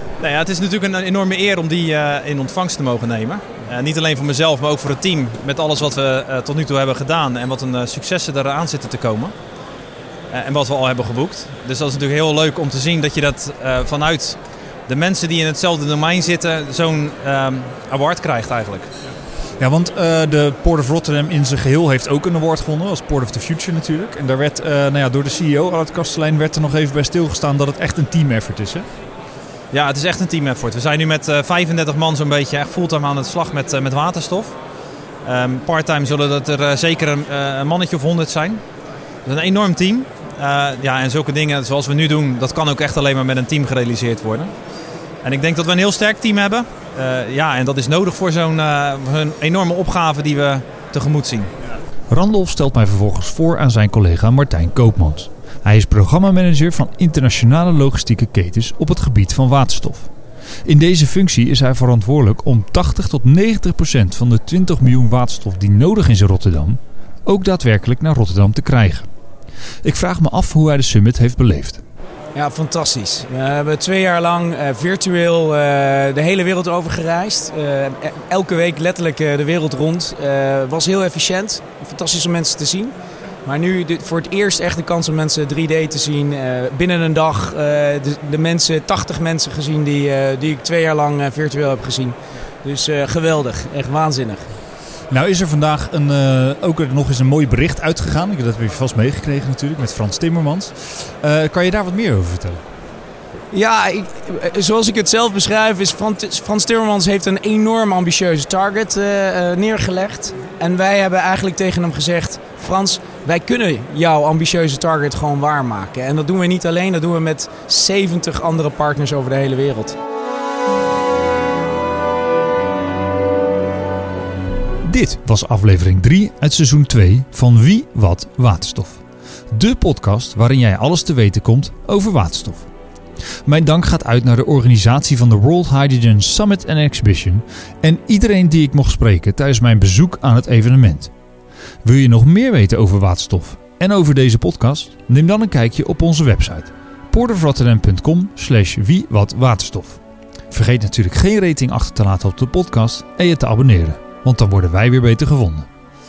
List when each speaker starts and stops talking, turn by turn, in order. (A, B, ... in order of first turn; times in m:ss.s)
0:00.2-0:09.3 A
0:10.3-0:18.9 A
0:19.6-0:28.9 B
0:29.7-0:34.5 A
0:35.2-0:38.6 A
0:39.2-0:44.5 A
0:45.2-0:51.5 A
0:52.1-1:00.1 B
1:00.6-1:09.1 B
1:09.8-1:11.8 B
1:12.3-1:22.9 C
1:23.4-1:34.6 C
1:35.1-1:42.6 B
1:43.5-2:00.0 C
2:04.8-2:12.7 B
2:13.4-2:21.1 B
2:21.8-2:30.0 B
2:30.5-2:35.7 B